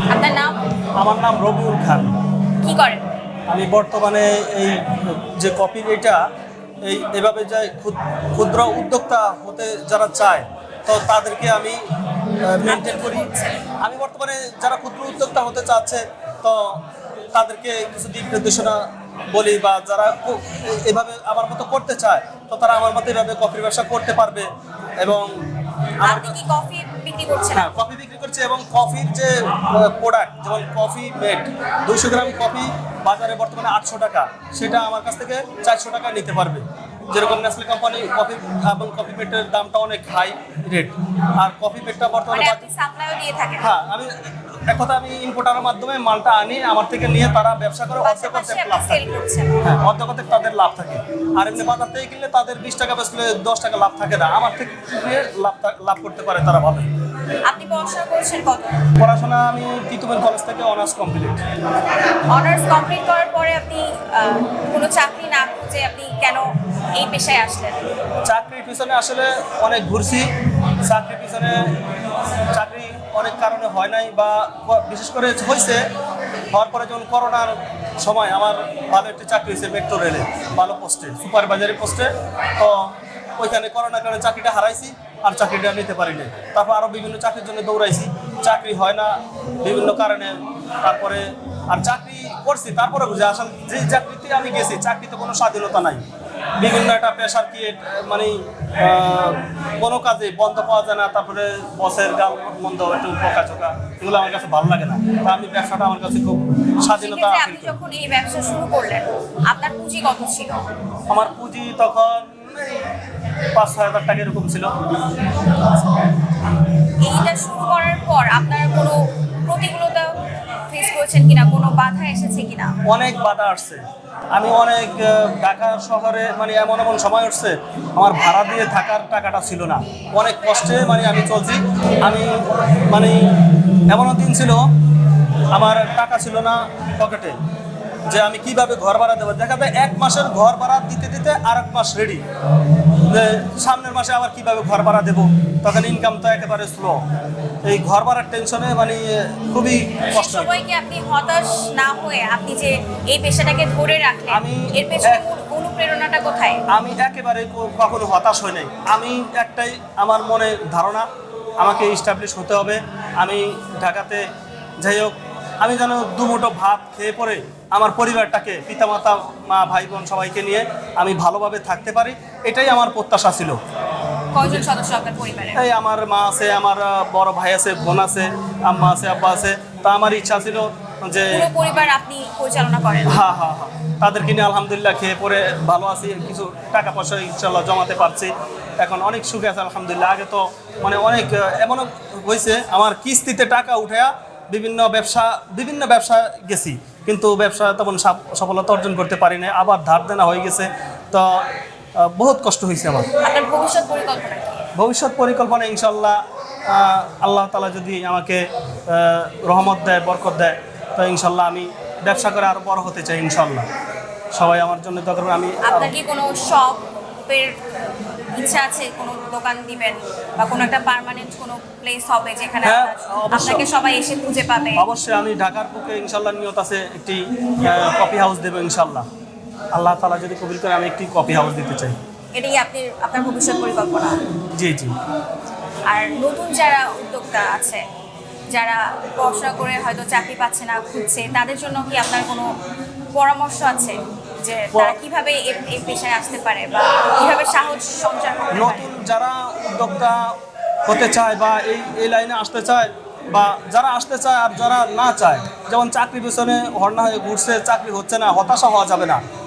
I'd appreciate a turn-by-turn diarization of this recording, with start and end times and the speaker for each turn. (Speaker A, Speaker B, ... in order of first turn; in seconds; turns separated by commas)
Speaker A: 0.1-0.6, Speaker B: 1.0-2.2, Speaker A: 2.6-3.0, Speaker B: 3.5-6.2, Speaker B: 6.8-11.8, Speaker B: 12.4-13.3, Speaker A: 12.6-13.6, Speaker B: 13.8-16.8, Speaker B: 17.3-24.5, Speaker B: 25.0-25.4, Speaker B: 26.0-26.4, Speaker A: 26.0-27.8, Speaker B: 27.5-42.6, Speaker A: 42.3-43.7, Speaker B: 43.6-44.1, Speaker B: 44.7-56.9, Speaker A: 48.0-49.6, Speaker A: 57.5-58.9, Speaker B: 59.0-61.5, Speaker A: 62.3-67.8, Speaker B: 68.2-70.3, Speaker B: 70.9-71.7, Speaker B: 72.5-75.8, Speaker B: 76.5-96.0, Speaker B: 96.6-107.8, Speaker A: 107.0-110.7, Speaker B: 111.1-112.9, Speaker B: 113.5-114.7, Speaker A: 117.0-120.1, Speaker A: 120.7-122.8, Speaker B: 122.9-133.3, Speaker B: 133.9-134.7, Speaker B: 135.5-137.4, Speaker B: 138.1-142.2, Speaker B: 143.1-147.0, Speaker B: 147.7-150.6, Speaker A: 150.1-156.6, Speaker B: 154.3-155.2, Speaker B: 156.7-161.1, Speaker B: 161.6-164.2, Speaker B: 164.8-173.6, Speaker A: 174.3-175.6, Speaker B: 175.6-181.4, Speaker A: 181.3-183.2, Speaker B: 183.1-201.4, Speaker B: 202.0-203.1, Speaker A: 203.2-204.7, Speaker B: 204.8-213.7, Speaker B: 214.3-215.9, Speaker A: 215.6-217.6, Speaker A: 218.3-224.8, Speaker B: 222.6-223.7, Speaker B: 224.8-229.1, Speaker B: 229.8-232.0, Speaker A: 232.3-234.2, Speaker B: 234.6-234.9, Speaker A: 235.9-237.8, Speaker A: 238.5-242.5, Speaker A: 243.1-248.9, Speaker B: 248.5-250.3, Speaker B: 250.9-259.2